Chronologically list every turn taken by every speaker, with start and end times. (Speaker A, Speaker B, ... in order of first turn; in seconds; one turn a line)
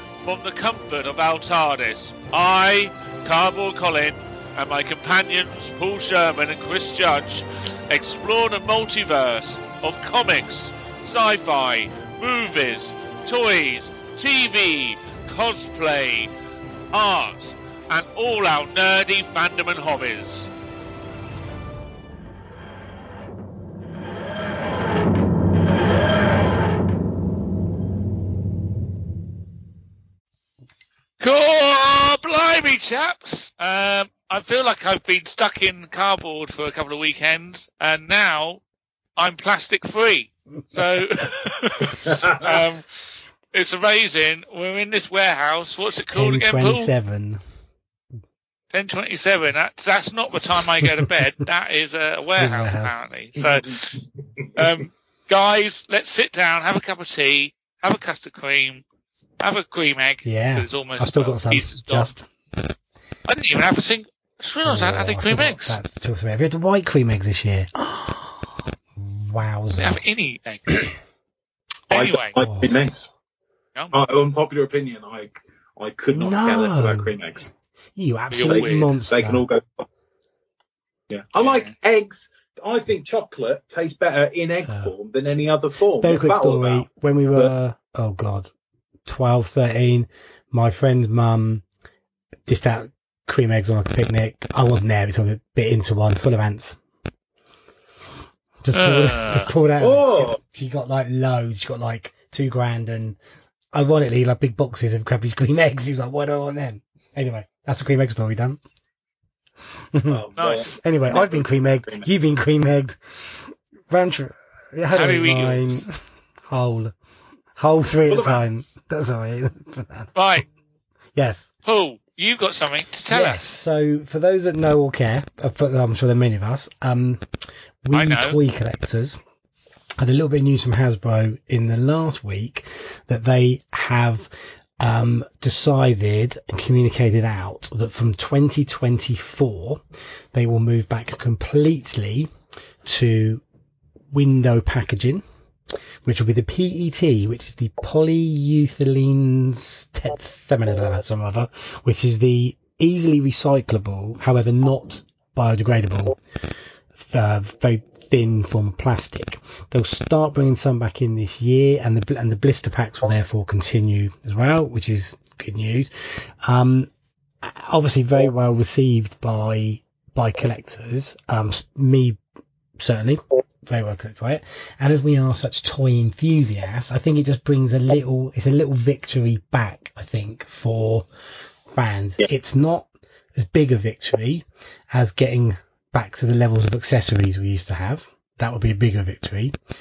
Speaker A: 0.2-16.3
Speaker A: 16.9-20.5
Speaker A: 31.2-38.6
Speaker A: 39.2-46.9
Speaker B: 42.0-42.7
Speaker C: 46.1-47.4
Speaker A: 48.7-58.8
Speaker C: 52.4-53.0
Speaker A: 59.4-62.1
Speaker C: 60.2-62.3
Speaker A: 63.3-65.8
Speaker C: 64.6-70.0
Speaker A: 69.8-70.9
Speaker A: 71.9-72.4
Speaker B: 71.9-73.1
Speaker C: 72.4-72.8
Speaker B: 73.9-77.5
Speaker C: 76.1-77.2
Speaker C: 77.9-79.4
Speaker A: 78.3-79.0
Speaker B: 78.4-79.9
Speaker B: 81.1-87.5
Speaker A: 81.4-81.7
Speaker C: 84.7-84.9
Speaker C: 86.0-88.5
Speaker C: 89.0-91.6
Speaker C: 92.5-96.8
Speaker C: 98.6-103.2
Speaker A: 98.7-99.5
Speaker B: 99.8-100.4
Speaker C: 103.7-108.6
Speaker C: 109.9-116.9
Speaker B: 110.1-112.1
Speaker A: 110.4-110.7
Speaker A: 114.9-115.9
Speaker C: 117.5-120.1
Speaker B: 118.1-118.6
Speaker A: 120.1-120.5
Speaker C: 121.1-121.5
Speaker A: 121.6-123.4
Speaker C: 123.1-127.3
Speaker C: 127.8-129.2
Speaker A: 127.9-128.4
Speaker C: 130.0-134.3
Speaker C: 134.8-142.3
Speaker C: 142.8-143.4
Speaker C: 144.1-145.2
Speaker C: 146.0-156.2
Speaker C: 156.9-166.9
Speaker C: 167.4-172.2
Speaker C: 172.8-181.1
Speaker C: 181.7-189.6